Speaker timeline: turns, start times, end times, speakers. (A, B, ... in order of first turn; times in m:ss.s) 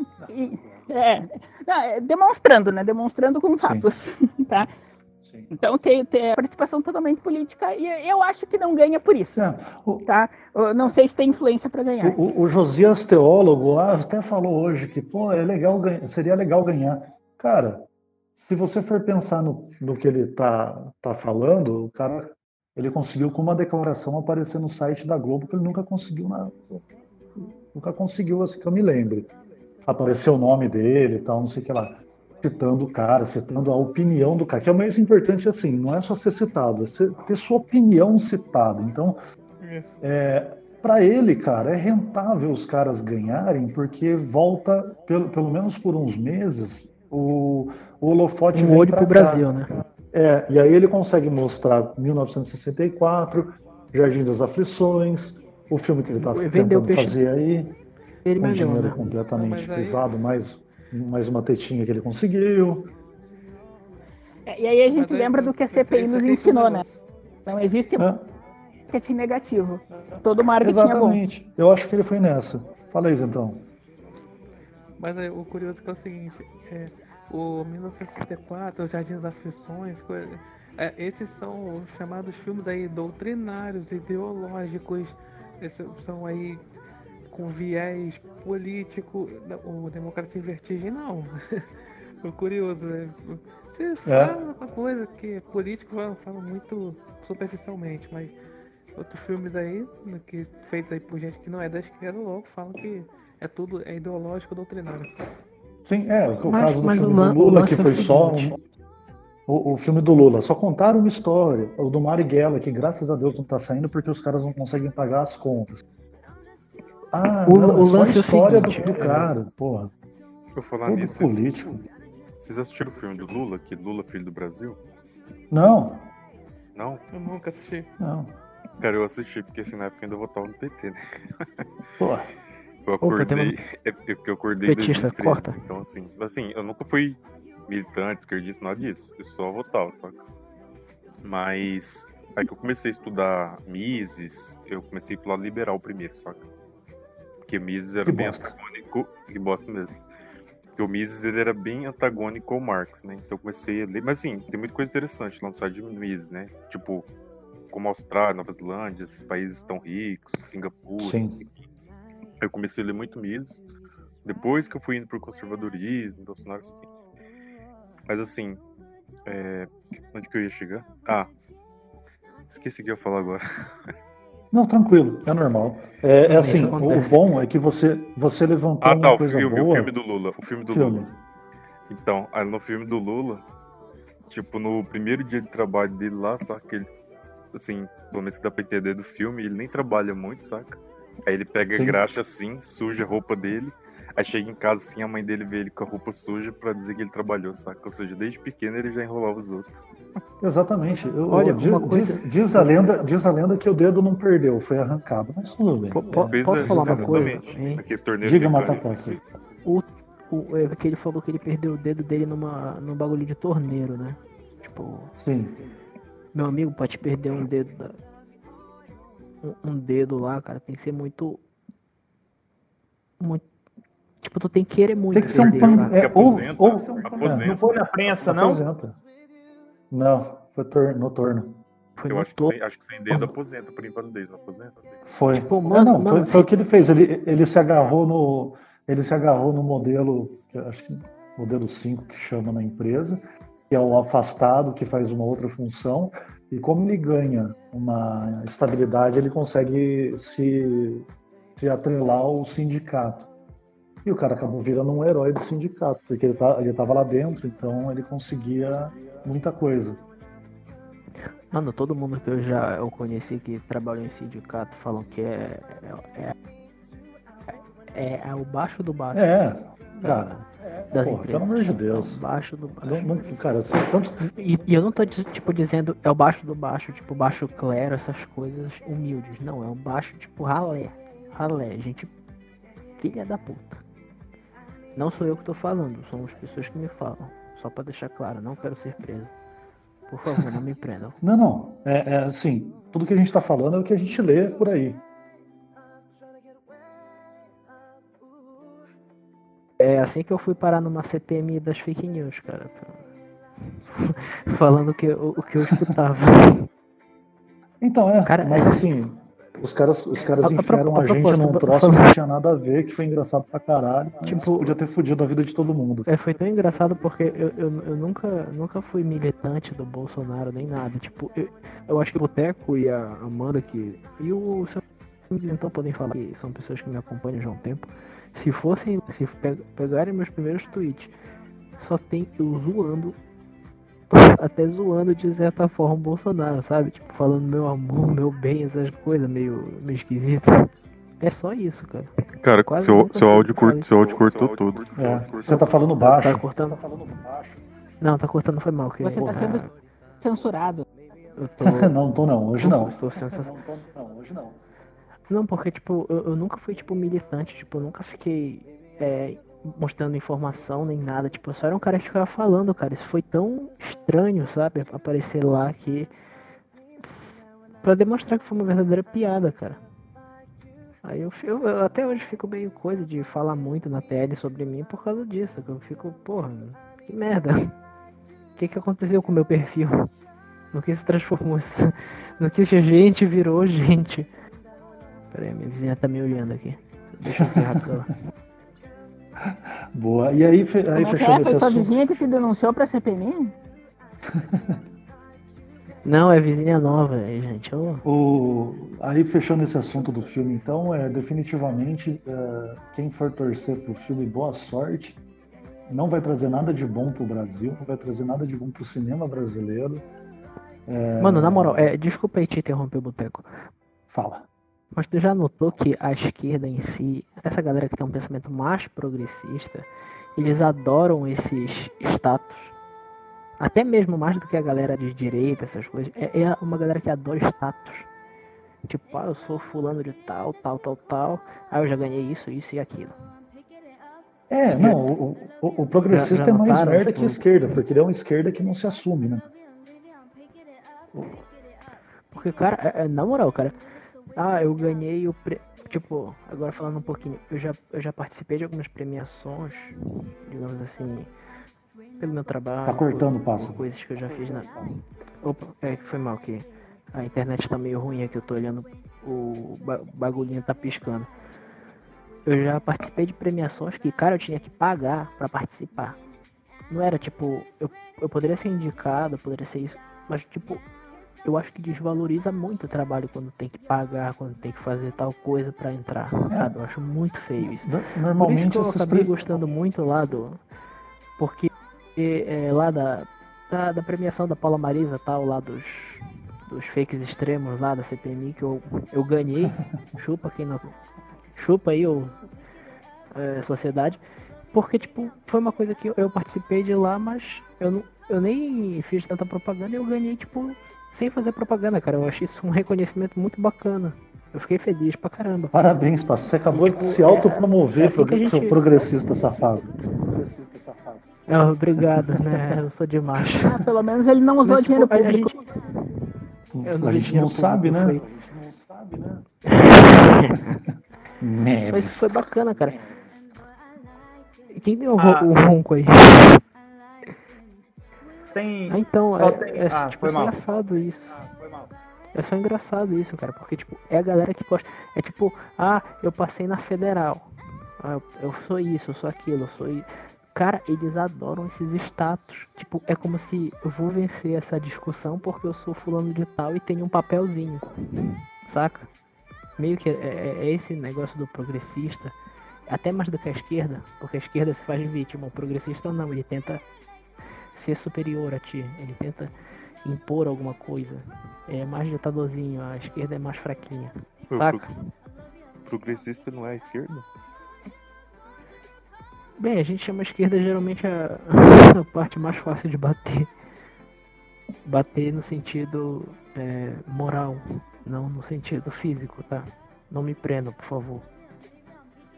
0:00.3-0:04.7 A
0:03.6-0:03.9 B
0:05.2-0:05.5 B
0:05.5-0:09.4 A
0:09.4-0:10.0 B
0:10.0-0:12.2 A
0:12.0-0:17.8 B
0:18.4-0:26.8 B
0:27.4-0:29.3 B
0:29.9-0:39.2 B
0:39.6-0:39.9 C
0:40.0-0:49.5 B
0:48.5-0:49.7 D
0:50.1-0:57.7 B
0:56.2-0:57.2 D
0:58.2-0:59.0 D
0:58.4-1:02.9 B
0:59.3-1:00.1 C
1:04.4-1:06.8 A
1:04.9-1:06.9 C
1:07.4-1:08.1 A
1:08.9-1:11.2 A
1:10.6-1:13.6 B
1:15.0-1:26.6 C
1:27.3-1:31.7 C
1:32.2-1:38.3 C
1:34.0-1:34.3 B
1:38.9-1:45.2 C
1:45.8-1:48.6 B
1:46.4-1:48.5 D
1:49.5-1:55.8 B
1:57.1-1:59.9 B
1:57.4-1:59.2 D
2:00.5-2:01.5 E
2:00.8-2:01.8 B
2:02.4-2:04.8 E
2:05.5-2:06.1 B
2:06.7-2:07.0 E
2:07.1-2:07.9 C
2:08.0-2:08.3 B
2:08.8-2:11.6 E
2:12.0-2:12.3 B
2:12.8-2:20.2 E
2:13.0-2:13.6 D
2:14.6-2:15.6 D
2:21.2-2:26.4 E
2:27.4-2:30.0 E
2:28.0-2:28.5 B
2:30.7-2:37.1 E
2:37.7-2:41.6 E
2:41.0-2:41.4 B
2:42.4-2:43.6 E
2:44.2-2:46.9 E
2:48.1-2:48.6 E
2:49.2-2:51.3 E
2:52.5-2:53.9 E
2:54.5-2:59.9 B
2:56.2-2:57.2 D
2:58.8-3:01.1 E
3:00.7-3:01.1 B
3:01.9-3:03.4 E
3:04.3-3:06.9 E
3:07.5-3:19.8 E
3:11.7-3:12.0 B
3:20.4-3:27.5 B
3:21.3-3:23.0 D
3:25.9-3:27.8 D
3:26.2-3:29.2 E
3:28.2-3:29.2 B
3:29.6-3:35.1 D
3:35.2-3:35.6 B
3:36.3-3:38.0 D
3:39.4-3:41.4 D
3:43.2-3:43.4 D
3:44.2-3:46.1 D
3:45.1-3:49.0 B
3:45.2-3:47.8 E
3:47.4-3:48.6 F
3:49.9-3:51.6 B
3:52.0-3:52.6 D
3:52.1-3:54.8 E
3:55.1-4:11.0 B
3:55.3-3:56.5 D
4:11.6-4:13.3 B
4:14.0-4:20.0 B
4:21.5-4:26.3 D
4:27.9-4:29.3 D
4:29.1-4:32.2 B
4:30.0-4:33.1 D
4:32.8-4:34.2 B
4:34.2-4:42.1 D
4:43.0-4:43.8 D
4:45.0-4:49.3 D
4:50.1-4:51.2 D
4:51.2-4:55.0 B
4:59.8-5:03.0 D
5:03.8-5:06.7 D
5:07.8-5:16.1 B
5:08.2-5:08.8 D
5:10.4-5:12.1 D
5:14.2-5:14.8 D
5:16.1-5:31.1 D
5:31.8-5:33.2 D
5:34.1-5:40.7 D
5:41.2-5:43.9 D
5:42.4-5:45.6 E
5:45.0-5:47.6 B
5:45.4-5:46.8 D
5:48.0-5:49.7 D
5:49.0-5:49.6 A
5:50.2-5:50.8 A
5:51.4-5:51.9 D
5:51.6-5:54.5 B
5:52.6-5:53.5 D
5:55.3-6:06.1 D
6:07.0-6:07.3 D
6:07.8-6:09.8 D
6:11.0-6:17.7 D
6:18.6-6:20.1 D
6:20.7-6:24.3 D
6:25.3-6:28.2 D
6:27.3-6:27.8 B
6:29.5-6:31.9 B
6:31.0-6:33.5 A
6:34.3-6:34.8 B
6:36.0-6:38.0 D
6:38.0-6:45.2 B
6:45.9-6:50.0 B
6:50.9-6:51.8 B
6:51.2-6:53.5 D
6:54.1-6:54.4 B
6:54.9-7:02.7 D
7:03.6-7:08.1 D
7:08.8-7:13.1 D
7:14.5-7:19.5 B
7:14.7-7:15.0 D
7:16.1-7:17.5 D
7:22.3-7:23.7 D
7:24.4-7:31.3 D
7:32.2-7:41.3 D
7:32.8-7:33.8 B
7:42.4-7:46.2 D
7:46.9-7:50.8 D
7:51.4-8:00.6 D
7:57.6-7:59.3 B
8:01.4-8:10.9 D
8:11.6-8:12.4 D
8:13.3-8:14.2 D
8:14.7-8:25.7 D
8:25.7-8:31.2 B
8:26.7-8:30.0 D
8:31.5-8:33.8 D
8:32.0-8:32.8 B
8:33.6-8:35.5 A
8:34.6-8:38.2 D
8:36.7-8:39.4 B
8:39.6-8:40.6 D
8:40.5-8:40.8 B
8:41.4-8:42.4 B
8:41.9-8:43.0 D
8:42.9-8:43.4 B
8:44.7-8:46.6 D
8:45.2-8:45.5 F
8:48.5-8:50.6 F
8:48.9-8:51.4 D
8:52.3-8:57.5 D
8:58.0-9:09.1 D
9:09.8-9:12.4 D
9:12.9-9:16.8 D
9:17.7-9:19.5 D
9:20.0-9:24.9 D
9:24.5-9:24.8 E
9:25.8-9:27.2 E
9:29.6-9:33.5 D
9:34.8-9:41.3 D